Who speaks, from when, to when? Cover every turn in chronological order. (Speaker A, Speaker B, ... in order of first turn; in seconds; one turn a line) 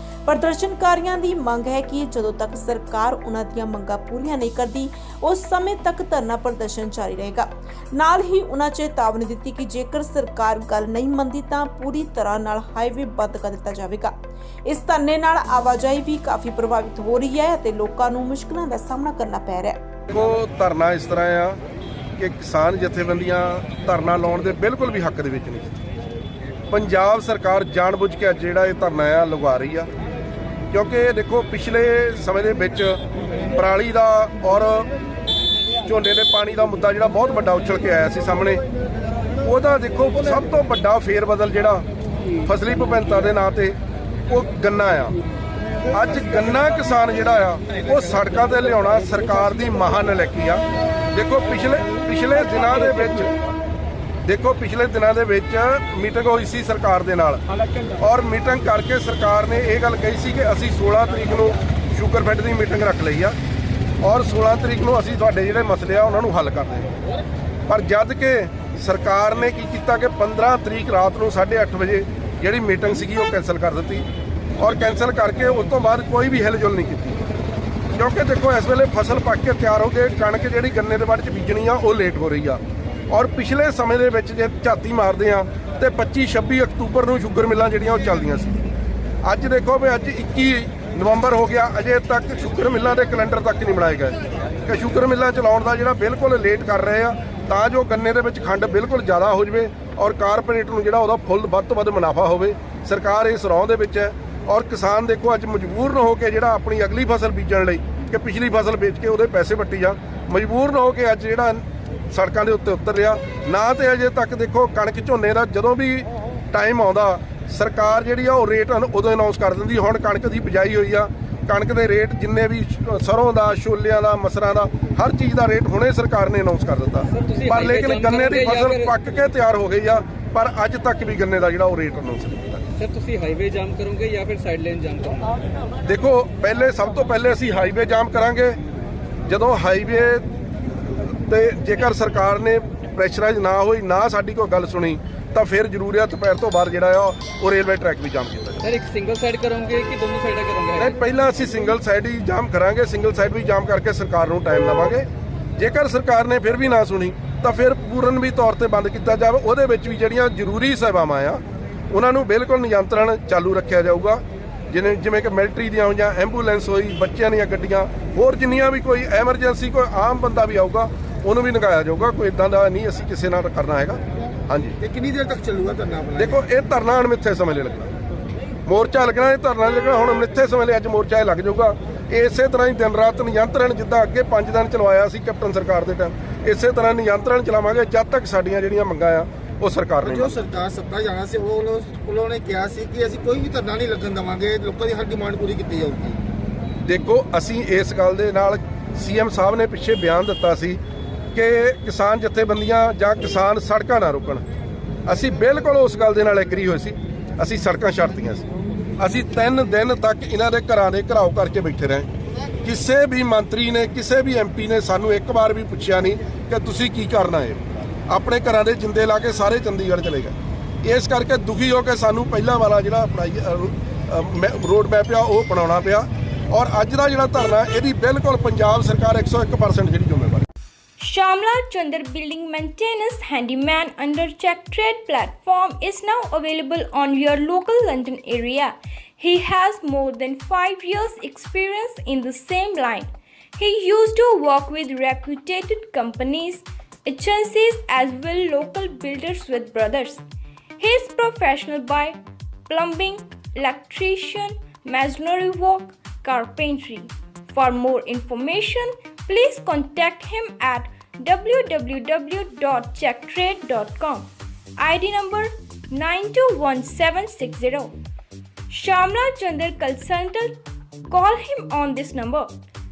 Speaker A: 0.2-14.1
Speaker A: 14.7-19.8
Speaker B: 20.1-21.6
Speaker B: 22.2-25.8
Speaker B: 26.7-29.9
Speaker B: 30.7-33.0
Speaker B: 33.5-34.9
Speaker B: 35.8-38.6
Speaker B: 39.4-41.8
Speaker B: 42.4-43.8
Speaker B: 44.3-45.2
Speaker B: 45.9-53.3
Speaker B: 54.2-57.4
Speaker B: 58.0-63.4
Speaker B: 64.0-66.9
Speaker B: 67.7-74.0
Speaker B: 74.6-77.2
Speaker B: 77.9-88.6
Speaker B: 89.2-132.6
Speaker C: 127.1-128.9
Speaker C: 132.8-135.3
Speaker B: 135.8-138.6
Speaker B: 139.3-140.2
Speaker B: 140.9-148.6
Speaker C: 148.6-150.9
Speaker B: 150.8-174.8
Speaker D: 174.8-176.4
Speaker B: 176.2-177.9
Speaker B: 178.7-190.4
Speaker D: 190.0-196.2
Speaker B: 196.8-200.8
Speaker B: 201.3-204.4
Speaker B: 205.1-208.4
Speaker B: 209.0-212.1
Speaker B: 212.6-230.4
Speaker E: 231.0-250.2
Speaker E: 250.8-264.3
Speaker E: 264.8-267.9
Speaker E: 268.7-270.5
Speaker E: 271.1-272.5